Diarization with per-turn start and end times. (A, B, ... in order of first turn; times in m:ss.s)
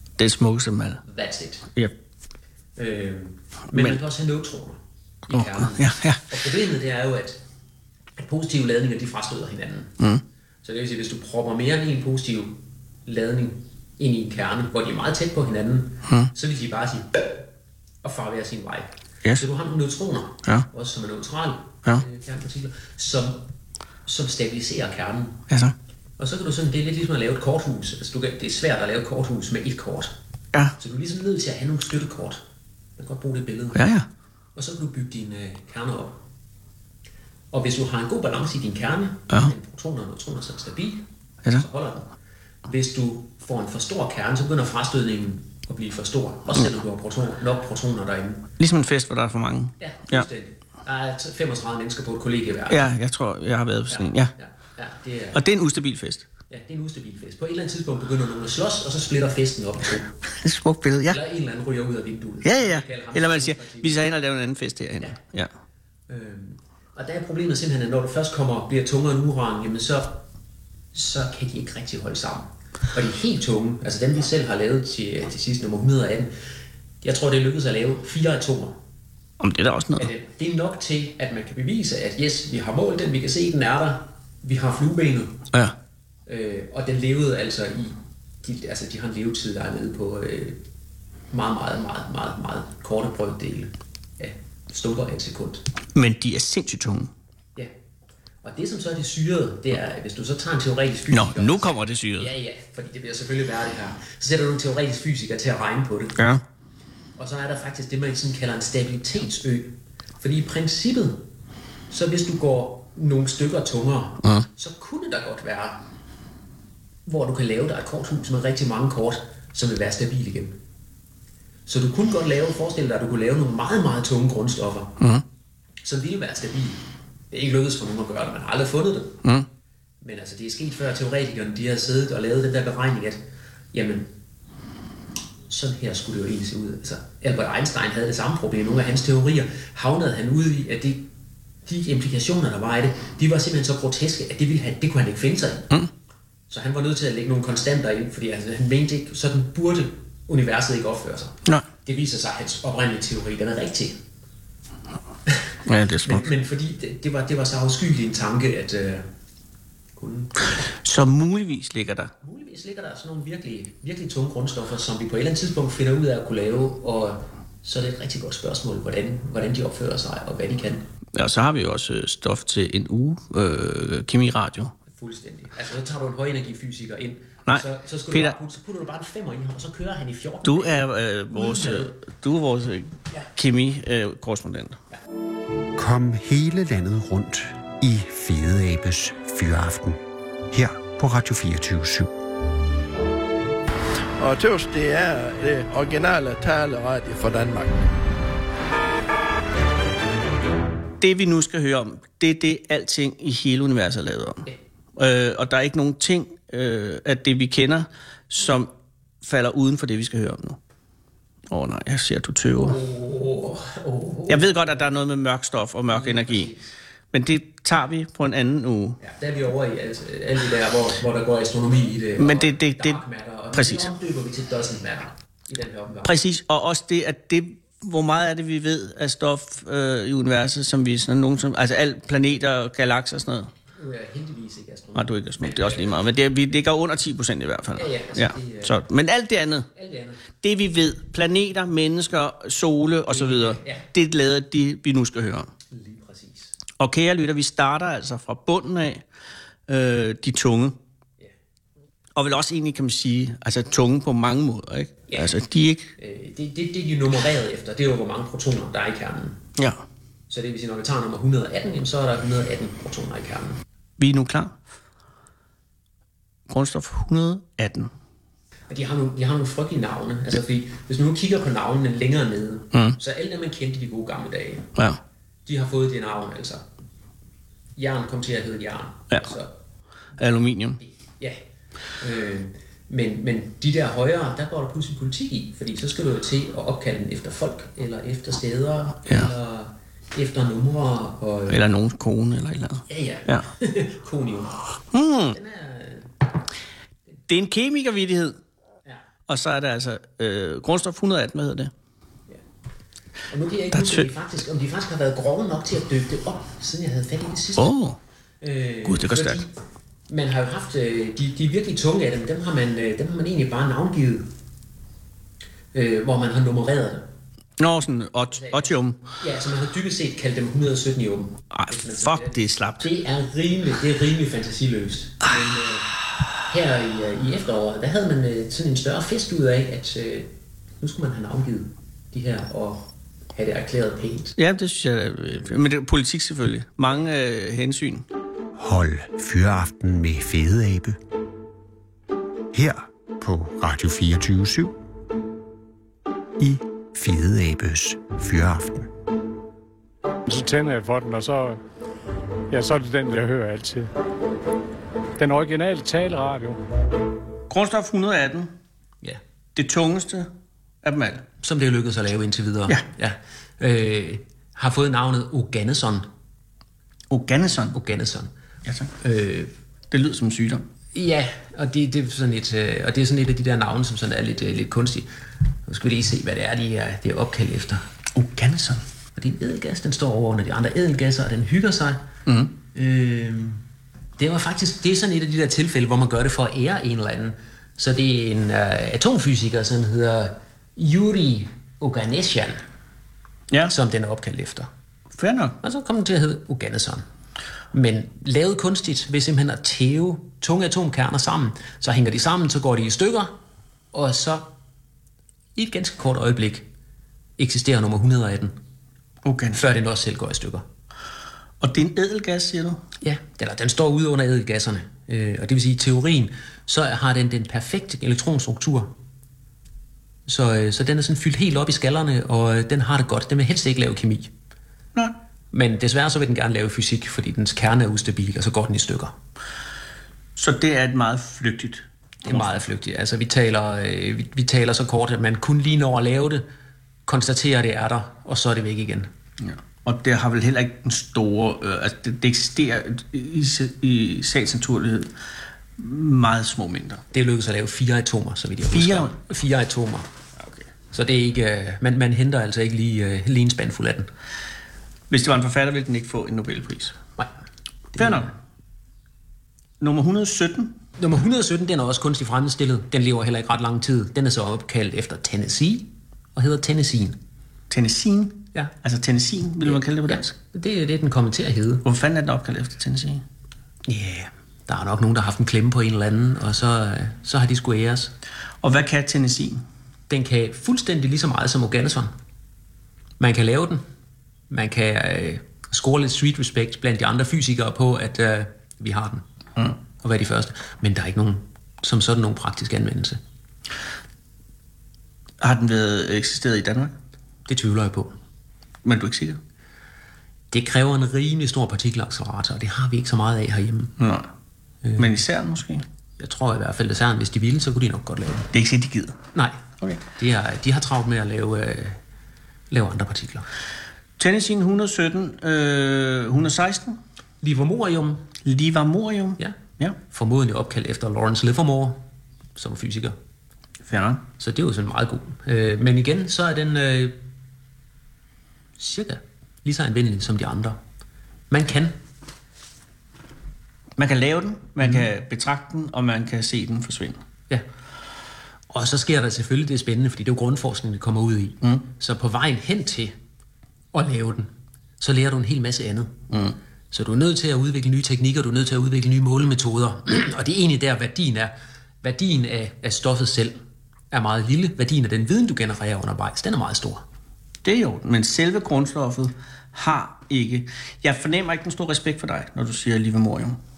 0:00.2-0:01.0 A
0:01.0-0:01.7 B
0:02.8-0:07.4 B
0:03.7-0:04.0 A
0:05.3-0:06.2 A
0:08.2-0:09.9 B
0:10.6-0:17.4 B
0:16.0-0:16.3 A
0:18.0-0:23.4 B
0:24.0-0:25.4 B
0:25.5-0:25.7 A
0:26.2-0:30.1 B
0:30.8-0:32.4 B
0:33.0-0:33.8 B
0:33.7-0:34.1 A
0:34.6-0:36.2 B
0:37.5-0:42.1 B
0:42.6-0:48.5 B
0:48.6-0:50.3 A
0:49.8-0:52.8 B
0:52.7-0:54.3 A
0:53.9-0:55.4 B
0:55.3-0:56.2 A
0:56.5-1:00.1 B
1:00.3-1:01.2 A
1:01.1-1:04.0 B
1:02.4-1:05.5 A
1:06.1-1:10.2 B
1:10.9-1:16.3 B
1:17.0-1:18.8 B
1:19.4-1:20.1 A
1:20.0-1:25.4 B
1:26.3-1:30.6 B
1:31.3-1:35.6 B
1:35.9-1:37.1 A
1:38.4-1:46.2 B
1:41.1-1:42.3 A
1:46.2-1:46.4 A
1:47.2-1:51.2 B
1:51.9-1:55.8 B
1:57.0-2:00.6 B
2:01.7-2:05.0 B
2:05.8-2:09.2 B
2:10.0-2:13.2 B
2:13.7-2:14.1 B
2:15.5-2:21.1 B
2:21.6-2:25.7 B
2:26.5-2:33.9 B
2:35.6-2:36.3 A
2:36.0-2:39.0 B
2:40.0-2:40.7 B
2:40.7-2:42.1 A
2:42.2-2:50.8 B
2:51.1-2:54.7 A
2:54.9-3:01.9 B
2:57.5-2:58.3 A
3:00.4-3:04.8 A
3:05.8-3:12.1 C
3:14.2-3:17.8 D
3:21.0-3:28.7 A
3:29.2-3:30.6 A
3:31.5-3:32.8 A
3:32.6-3:34.5 B
3:34.3-3:36.5 A
3:35.9-3:36.6 B
3:37.1-3:39.0 A
3:39.0-3:46.1 B
3:42.2-3:43.0 A
3:43.5-3:43.9 A
3:46.0-3:53.5 A
3:53.7-3:56.0 B
3:55.0-3:59.7 A
3:57.7-3:58.8 B
3:59.7-4:00.2 B
4:00.4-4:05.5 A
4:03.1-4:03.8 B
4:05.7-4:06.6 B
4:06.8-4:09.0 A
4:09.7-4:10.8 A
4:12.1-4:15.9 A
4:16.0-4:19.4 B
4:20.3-4:23.6 B
4:24.0-4:24.5 A
4:26.5-4:27.9 A
4:28.7-4:34.7 B
4:32.7-4:33.0 A
4:35.4-4:36.6 B
4:37.8-4:39.5 B
4:40.2-4:40.8 A
4:40.8-4:41.4 B
4:42.0-4:51.6 B
4:51.5-4:53.5 A
4:52.9-4:54.6 B
4:54.9-4:55.4 A
4:55.3-4:56.1 B
4:57.3-4:58.4 A
4:59.3-5:01.7 A
5:03.3-5:07.7 B
5:03.7-5:04.1 A
5:07.6-5:08.0 A
5:08.4-5:09.5 B
5:08.8-5:09.4 A
5:10.1-5:14.3 B
5:15.7-5:17.0 B
5:17.6-5:19.0 A
5:18.4-5:25.9 B
5:21.5-5:22.9 A
5:26.4-5:34.3 B
5:34.4-5:38.0 A
5:38.6-5:41.0 C
5:42.5-5:44.7 C
5:46.4-5:48.9 C
5:50.3-5:51.6 E
5:52.5-5:53.9 E
5:55.2-5:56.6 E
5:57.5-5:58.5 A
5:59.6-6:00.3 A
6:00.8-6:01.2 A
6:01.4-6:06.1 B
6:07.1-6:07.8 A
6:07.7-6:08.3 B
6:08.6-6:08.9 A
6:09.0-6:09.5 B
6:09.9-6:10.6 A
6:10.9-6:15.1 B
6:15.6-6:17.8 B
6:18.1-6:18.8 A
6:19.2-6:22.0 B
6:22.2-6:22.5 A
6:22.7-6:23.6 B
6:24.2-6:32.6 B
6:33.7-6:34.7 B
6:35.2-6:35.6 A
6:35.6-6:37.0 B
6:37.7-6:43.3 B
6:43.9-6:44.5 B
6:45.6-6:46.7 B
6:47.4-6:48.5 B
6:49.2-6:49.6 A
6:49.5-6:50.6 B
6:51.6-6:52.8 A
6:53.0-6:58.9 B
7:00.3-7:04.3 B
7:05.5-7:09.1 B
7:10.4-7:12.6 A
7:12.2-7:16.4 B
7:17.1-7:19.1 B
7:19.4-7:25.1 A
7:25.8-7:27.0 A
7:27.1-7:30.1 B
7:28.7-7:29.2 A
7:30.4-7:30.6 A
7:30.9-7:34.1 B
7:35.1-7:37.0 A
7:37.9-7:38.3 B
7:38.0-7:38.3 A
7:39.8-7:40.7 A
7:41.0-7:47.2 B
7:47.7-7:50.3 A
7:49.6-7:51.8 B
7:51.8-7:53.2 A
7:53.8-7:58.1 B
7:58.6-7:59.6 A
8:00.1-8:02.1 B
8:03.2-8:03.8 B
8:04.5-8:09.2 B
8:10.0-8:13.2 B
8:15.4-8:16.9 A
8:17.5-8:18.1 B
8:18.8-8:19.4 A
8:20.5-8:23.9 B
8:24.0-8:24.3 A
8:24.8-8:25.2 B
8:25.0-8:25.8 A
8:26.2-8:28.5 B
8:28.5-8:29.2 A
8:30.2-8:32.0 B
8:32.7-8:33.4 B
8:34.2-8:37.0 A
8:37.4-8:38.2 B
8:38.4-8:40.0 A
8:40.1-8:42.0 B
8:42.6-8:43.1 B
8:43.9-8:44.2 A
8:44.4-8:47.2 B
8:48.8-8:50.8 B
8:51.5-8:52.0 B
8:54.0-8:57.2 A
8:58.7-9:03.1 B
9:03.9-9:06.2 B
9:06.3-9:06.6 A
9:06.9-9:13.6 B
9:14.1-9:17.0 B
9:17.6-9:23.6 A